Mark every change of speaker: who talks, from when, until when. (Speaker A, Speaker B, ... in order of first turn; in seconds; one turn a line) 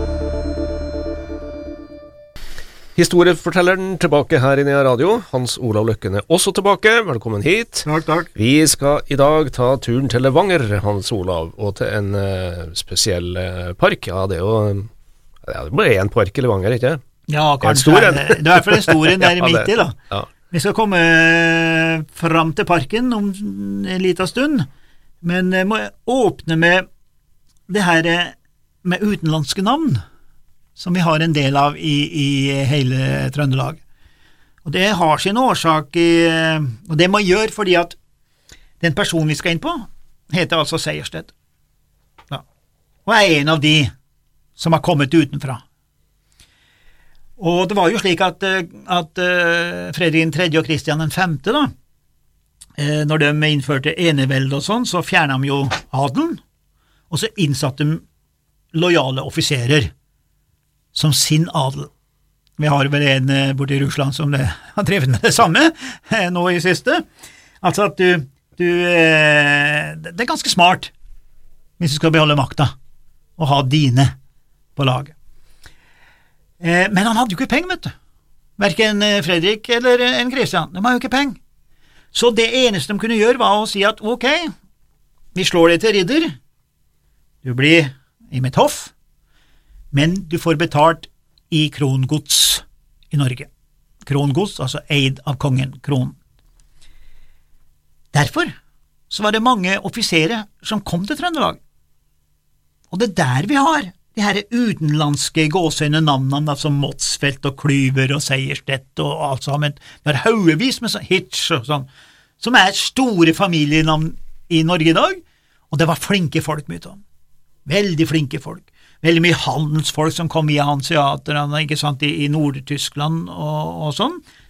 Speaker A: 3.0-14.9
Speaker B: 7.8-8.3
Speaker A: 15.4-17.0
Speaker B: 17.3-19.9
Speaker A: 17.6-20.2
Speaker B: 20.5-24.6
Speaker B: 25.2-26.8
Speaker B: 27.7-30.0
Speaker B: 30.8-33.8
Speaker B: 34.6-38.0
Speaker B: 38.8-41.3
Speaker B: 43.0-43.9
Speaker B: 44.6-45.6
Speaker B: 47.4-51.7
Speaker B: 52.8-56.4
Speaker B: 57.1-58.0
Speaker B: 58.7-59.9
Speaker B: 60.9-61.9
Speaker B: 62.6-67.0
Speaker B: 67.6-70.9
Speaker B: 71.8-72.7
Speaker B: 73.4-74.1
Speaker B: 74.8-75.1
Speaker B: 76.6-77.9
Speaker B: 78.6-81.4
Speaker B: 82.1-84.5
Speaker B: 85.3-86.3
Speaker B: 87.4-88.9
Speaker B: 89.9-93.5
Speaker B: 94.0-96.2
Speaker B: 98.1-98.5
Speaker B: 99.1-101.6
Speaker B: 102.9-111.9
Speaker B: 112.4-115.2
Speaker B: 115.7-117.0
Speaker B: 117.6-124.2